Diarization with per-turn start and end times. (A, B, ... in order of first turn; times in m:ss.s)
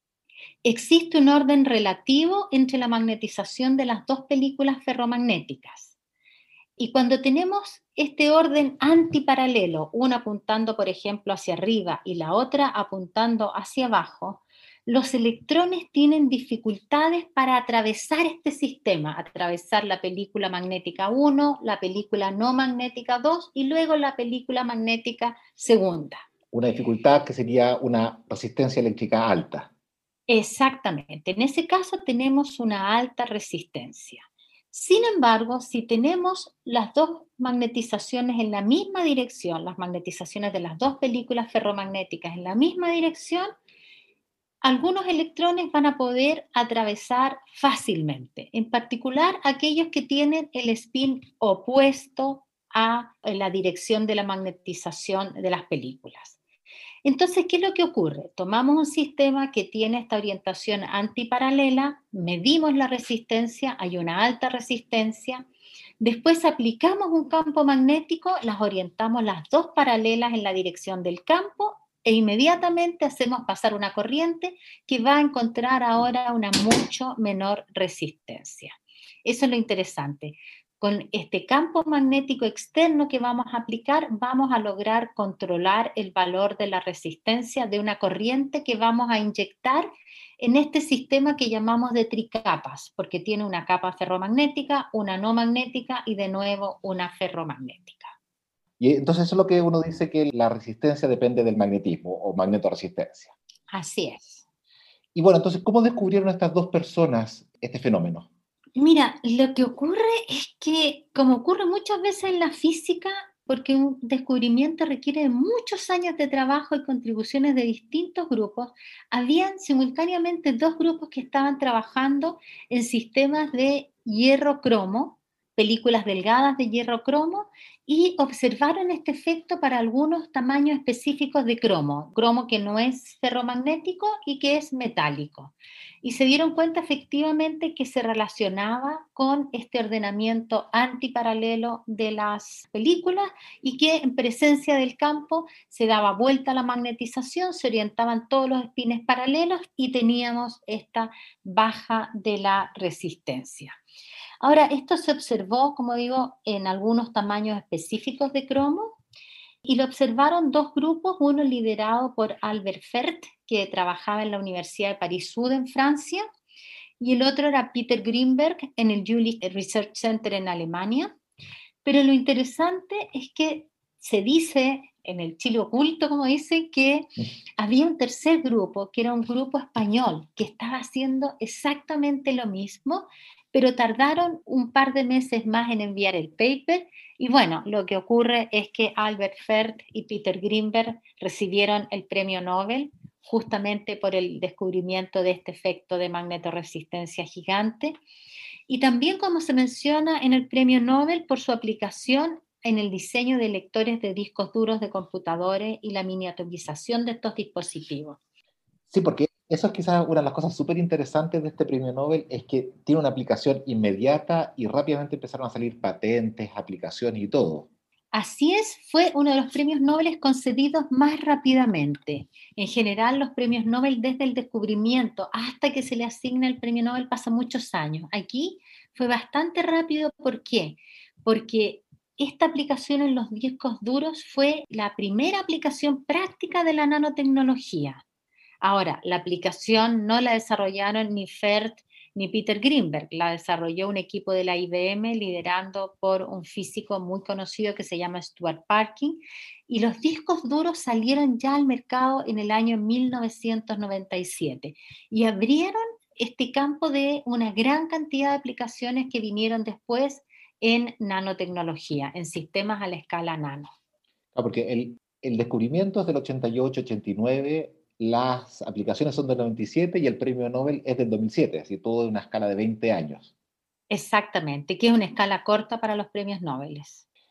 0:00.6-0:06.0 A
0:06.8-0:26.2 A
0:26.5-0:29.7 B
0:30.3-0:43.5 A
0:44.6-0:56.4 A
0:57.0-1:05.5 A
1:06.0-1:18.7 A
1:19.2-1:29.9 A
1:30.4-1:38.2 A
1:38.8-1:43.3 B
1:43.7-1:44.4 A
1:45.2-1:48.3 B
1:48.8-2:33.8 A
2:34.4-2:39.0 A
2:39.6-2:46.2 A
2:47.0-2:51.2 A
2:51.8-3:18.0 A
3:18.7-3:28.2 A
3:28.9-3:37.7 B
3:38.1-3:58.0 A
3:58.6-4:23.7 A
4:24.4-4:33.3 B
4:33.9-4:37.0 A